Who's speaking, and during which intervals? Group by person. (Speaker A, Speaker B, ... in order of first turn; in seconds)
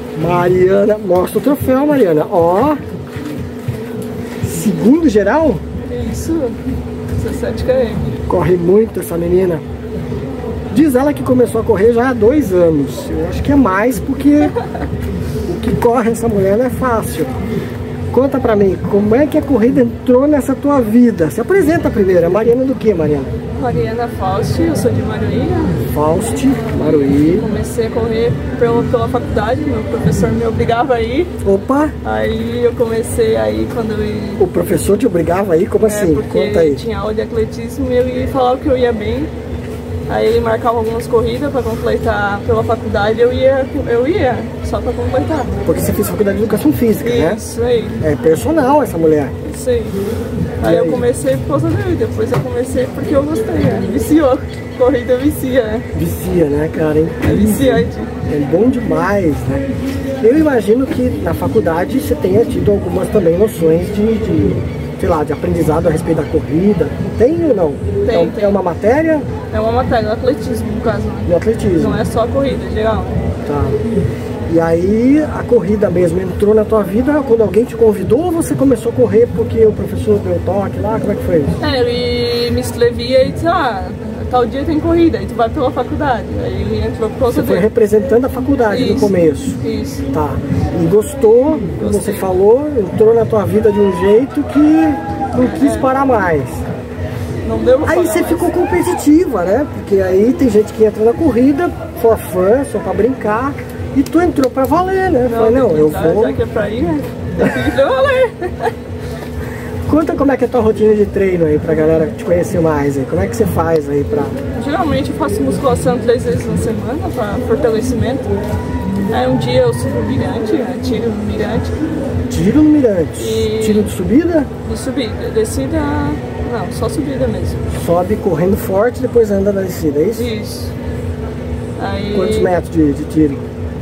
Speaker A: 0.1-2.8, 4.4-5.6, 8.3-9.6, 10.7-14.6, 15.5-17.3, 18.1-23.3, 25.8-27.5, 31.4-31.9, 34.4-36.8, 45.6-47.4, 48.0-49.4, 50.6-51.1, 55.9-59.7, 60.2-69.3, 71.3-72.0, 73.5-73.8, 74.5-81.6, 87.3-89.6, 90.1-96.7, 97.8-106.4, 109.9-114.4, 122.3-124.5, 127.7-130.3, 132.1-133.5
Speaker B: 5.9-6.6, 7.2-8.1, 23.6-25.8, 26.8-31.3, 32.0-34.5, 35.8-39.3, 40.1-45.5, 47.0-48.0, 49.4-50.0, 50.6-55.9, 57.2-58.1, 68.0-68.6, 69.5-73.2, 81.6-87.7, 88.7-90.0, 91.8-92.3, 95.4-95.9, 97.4-98.5, 105.3-108.7, 114.6-118.3, 119.1-121.9, 123.2-123.9, 124.6-127.6, 130.2-130.7, 131.8-132.5